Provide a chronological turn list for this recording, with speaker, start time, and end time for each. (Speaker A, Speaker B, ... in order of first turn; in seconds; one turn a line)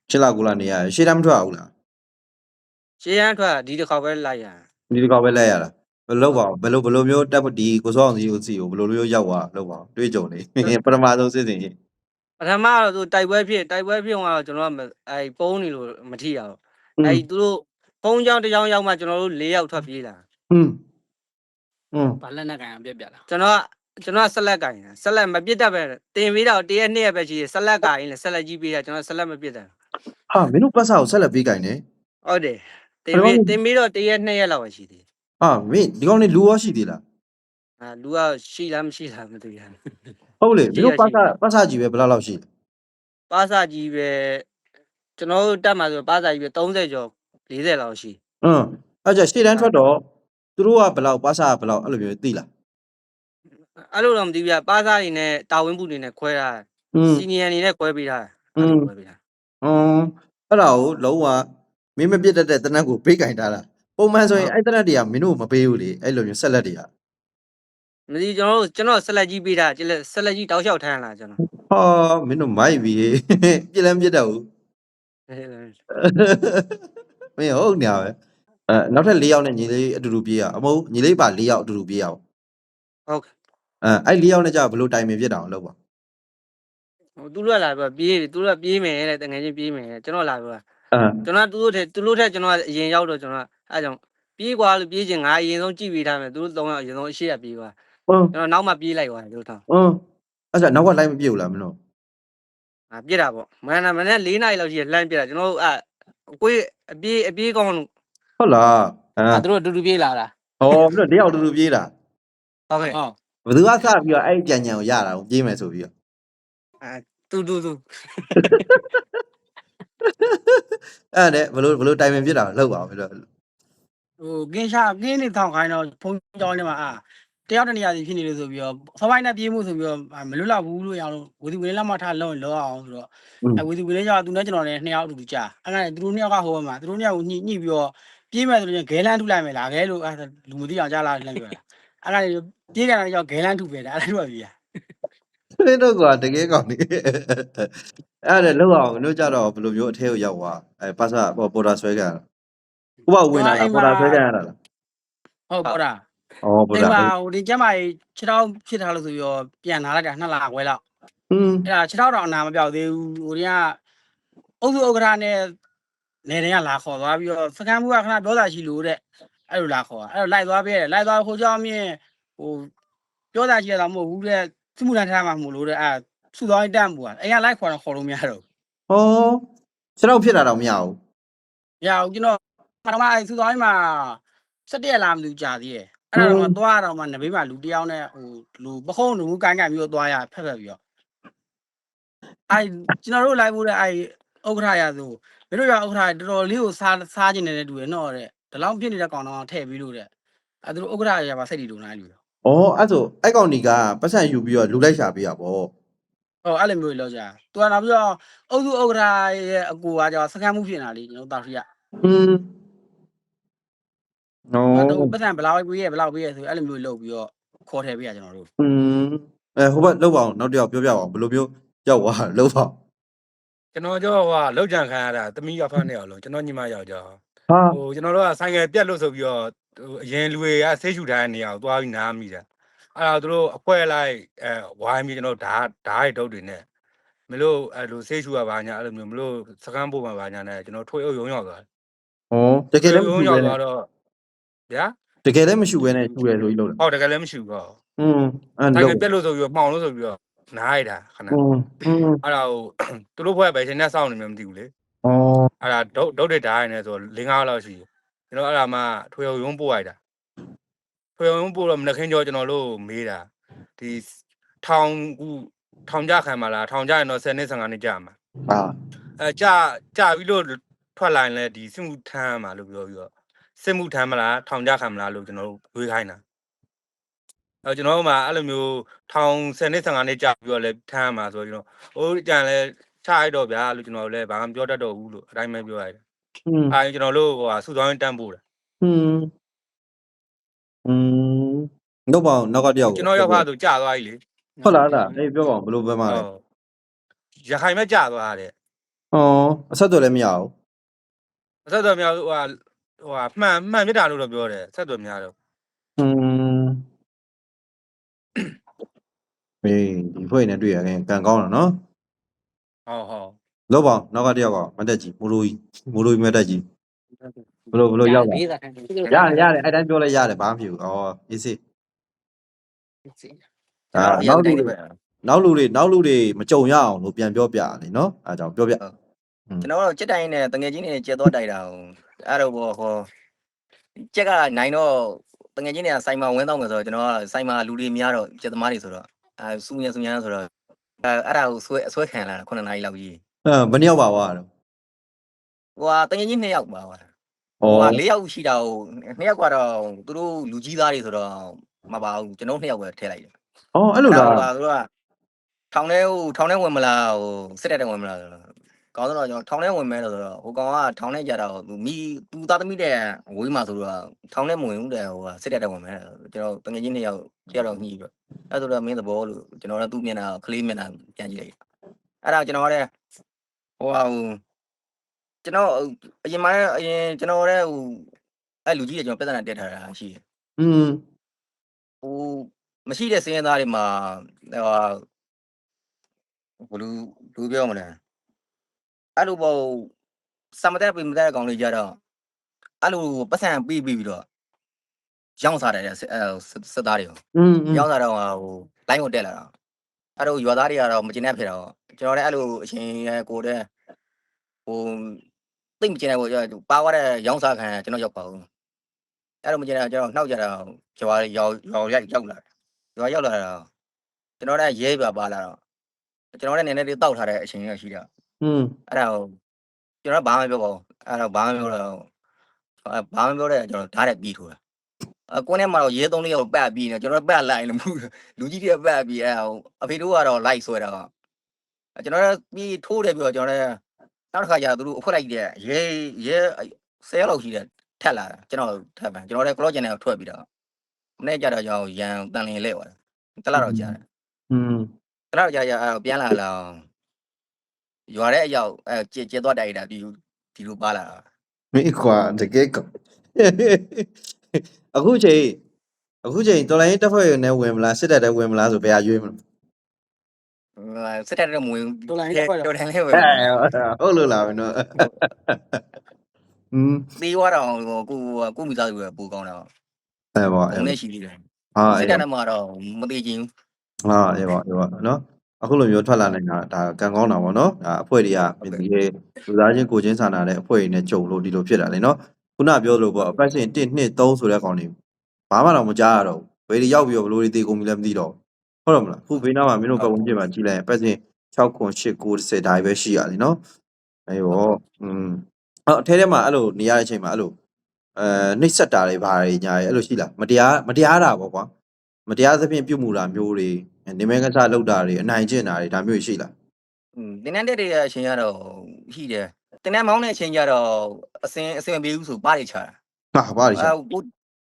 Speaker A: 0.1-1.7
Speaker B: 3.0-4.6
Speaker A: 4.9-11.8
Speaker B: 12.4-20.2
Speaker A: 20.5-20.8
Speaker A: 21.9-22.2
Speaker C: 22.2-23.2
Speaker B: 23.3-29.7
Speaker A: 30.3-31.8
Speaker B: 32.2-35.0
Speaker A: 33.1-33.5
Speaker A: 35.4-37.0
Speaker B: 37.8-39.8
Speaker A: 40.4-42.4
Speaker B: 40.7-41.3
Speaker B: 43.3-44.4
Speaker B: 45.2-48.2
Speaker A: 48.4-50.0
Speaker A: 50.6-52.5
Speaker B: 53.9-59.2
Speaker A: 56.9-57.2
Speaker A: 58.6-58.9
Speaker A: 59.6-61.5
Speaker A: 62.0-66.9
Speaker B: 68.1-71.4
Speaker A: 71.7-74.5
Speaker B: 75.3-75.8
Speaker A: 75.9-76.8
Speaker A: 77.4-78.2
Speaker A: 78.7-82.2
Speaker A: 83.8-85.8
Speaker B: 87.2-90.6
Speaker A: 90.9-91.2
Speaker B: 91.2-97.7
Speaker A: 98.1-98.3
Speaker B: 98.3-99.6
Speaker A: 99.7-100.0
Speaker A: 100.5-101.8
Speaker B: 102.9-107.9
Speaker A: 108.4-109.4
Speaker C: 109.3-110.3
Speaker A: 110.6-111.9
Speaker B: 112.7-113.0
Speaker A: 113.4-115.9
Speaker B: 116.8-118.7
Speaker A: 118.4-118.8
Speaker A: 120.1-123.2
Speaker D: 124.2-144.6
Speaker A: 145.6-147.7
Speaker A: 148.2-152.2
Speaker A: 153.1-154.6
Speaker D: 153.3-154.2
Speaker D: 155.5-156.0
Speaker A: 156.4-157.1
Speaker D: 156.7-160.8
Speaker A: 161.3-161.7
Speaker D: 161.7-163.8
Speaker D: 164.6-165.5
Speaker D: 166.2-172.7
Speaker D: 173.3-178.4
Speaker A: 178.9-179.4
Speaker A: 180.0-181.0
Speaker D: 181.8-190.8
Speaker A: 186.2-186.6
Speaker D: 192.5-200.1
Speaker D: 200.6-202.2
Speaker A: 202.4-205.7
Speaker D: 206.4-211.7
Speaker A: 212.0-212.5
Speaker A: 214.5-215.1
Speaker D: 214.7-218.5
Speaker A: 218.6-222.8
Speaker E: 223.7-227.2
Speaker A: 227.5-227.8
Speaker E: 227.7-232.4
Speaker E: 232.9-236.7
Speaker E: 237.3-241.7
Speaker A: 242.3-243.6
Speaker E: 242.8-243.9
Speaker A: 245.2-246.8
Speaker E: 246.8-247.8
Speaker A: 248.0-249.1
Speaker E: 248.7-251.4
Speaker A: 251.3-252.2
Speaker E: 252.2-254.7
Speaker A: 255.0-255.5
Speaker E: 255.6-260.0
Speaker E: 261.2-263.3
Speaker E: 263.8-264.0
Speaker E: 264.6-268.1
Speaker A: 268.5-268.7
Speaker E: 269.2-276.2
Speaker E: 277.6-286.0
Speaker A: 286.5-286.8
Speaker E: 286.7-288.4
Speaker A: 288.8-289.3
Speaker A: 290.9-293.4
Speaker E: 292.9-294.2
Speaker A: 294.6-296.2
Speaker B: 294.7-295.1
Speaker E: 296.1-296.4
Speaker E: 297.4-298.5
Speaker A: 299.1-300.5
Speaker E: 301.7-305.3
Speaker A: 306.0-306.8
Speaker A: 309.6-311.8
Speaker E: 312.9-313.3
Speaker A: 313.7-316.6
Speaker A: 317.7-318.4
Speaker B: 318.0-319.4
Speaker C: 318.1-318.4
Speaker C: 318.9-319.4
Speaker A: 319.1-321.6
Speaker A: 323.9-324.7
Speaker F: 323.9-324.9
Speaker A: 325.2-328.8
Speaker F: 329.6-333.1
Speaker F: 333.9-340.5
Speaker F: 341.0-343.2
Speaker A: 343.4-344.5
Speaker F: 345.8-347.1
Speaker A: 347.6-348.0
Speaker F: 347.7-353.3
Speaker A: 353.7-354.5
Speaker F: 354.1-354.9
Speaker F: 355.7-371.5
Speaker F: 372.2-372.9
Speaker F: 373.8-374.4
Speaker F: 375.4-378.1
Speaker F: 378.7-380.2
Speaker A: 380.6-381.0
Speaker F: 382.0-385.0
Speaker F: 386.6-388.0
Speaker F: 389.2-389.9
Speaker F: 390.5-392.0
Speaker F: 392.8-394.2
Speaker F: 395.4-397.2
Speaker A: 397.3-397.9
Speaker F: 397.7-399.5
Speaker F: 400.2-403.7
Speaker F: 404.7-405.2
Speaker F: 405.8-408.4
Speaker F: 409.4-412.4
Speaker F: 412.9-413.7
Speaker F: 414.4-415.6
Speaker F: 416.3-418.1
Speaker A: 418.4-418.7
Speaker F: 418.9-419.3
Speaker F: 420.0-422.1
Speaker F: 422.8-424.6
Speaker F: 425.3-431.1
Speaker F: 432.0-433.8
Speaker F: 434.3-440.4
Speaker F: 441.2-444.0
Speaker A: 443.6-443.9
Speaker A: 444.5-444.9
Speaker F: 445.3-446.8
Speaker F: 448.1-451.2
Speaker A: 451.7-454.1
Speaker A: 454.9-455.6
Speaker A: 456.2-459.4
Speaker F: 460.8-463.5
Speaker D: 462.1-462.7
Speaker A: 463.1-465.8
Speaker A: 466.7-467.1
Speaker F: 467.2-469.7
Speaker A: 470.4-470.9
Speaker F: 470.7-473.5
Speaker A: 471.8-472.2
Speaker A: 474.1-484.9
Speaker A: 485.5-493.6
Speaker A: 494.3-497.5
Speaker A: 498.2-501.7
Speaker A: 502.3-506.5
Speaker F: 507.2-513.0
Speaker A: 513.4-513.9
Speaker F: 513.8-514.2